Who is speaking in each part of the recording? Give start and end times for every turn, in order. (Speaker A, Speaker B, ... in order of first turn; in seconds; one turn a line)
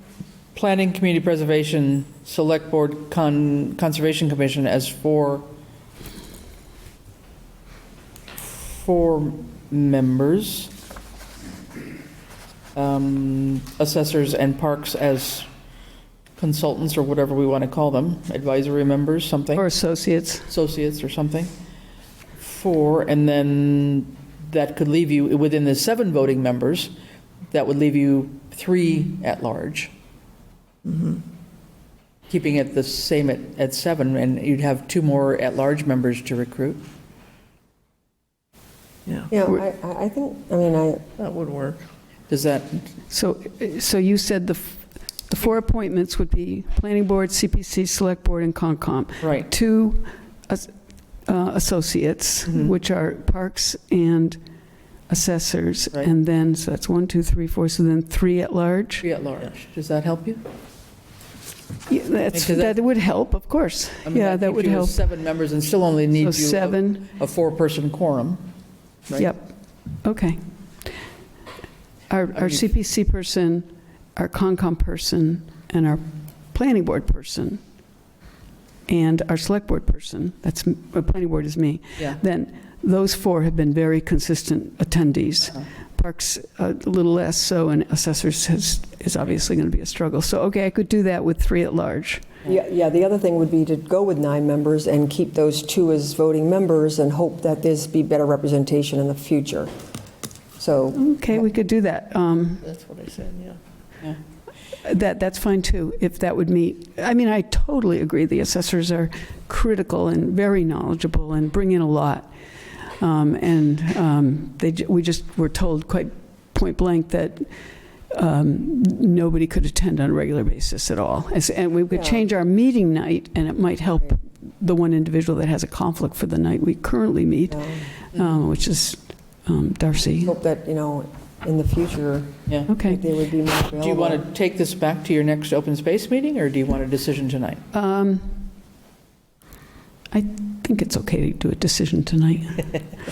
Speaker A: 0.5-5.5
Speaker A: 8.6-10.7
Speaker A: 12.7-15.5
Speaker A: 16.4-19.6
Speaker B: 19.5-20.5
Speaker A: 20.5-21.5
Speaker A: 22.4-26.9
Speaker A: 27.5-29.9
Speaker C: 30.8-31.2
Speaker A: 32.3-36.8
Speaker C: 39.0-39.3
Speaker D: 39.3-41.0
Speaker C: 41.2-41.8
Speaker A: 42.3-42.9
Speaker B: 43.1-54.4
Speaker A: 49.2-49.5
Speaker A: 52.5-52.7
Speaker B: 55.1-59.0
Speaker A: 59.0-60.4
Speaker B: 61.9-65.0
Speaker A: 62.3-62.8
Speaker A: 64.0-68.4
Speaker B: 66.2-67.0
Speaker B: 69.2-70.4
Speaker B: 72.1-77.6
Speaker A: 72.3-72.7
Speaker B: 78.9-92.3
Speaker D: 92.5-99.7
Speaker D: 100.6-101.4
Speaker B: 100.9-102.6
Speaker C: 102.6-103.6
Speaker B: 104.8-112.3
Speaker B: 112.8-117.5
Speaker B: 118.1-130.3
Speaker D: 121.9-122.2
Speaker D: 127.5-127.8
Speaker D: 130.2-134.2
Speaker B: 132.7-133.0
Speaker A: 133.8-137.6
Speaker B: 137.7-138.4
Speaker B: 140.1-142.8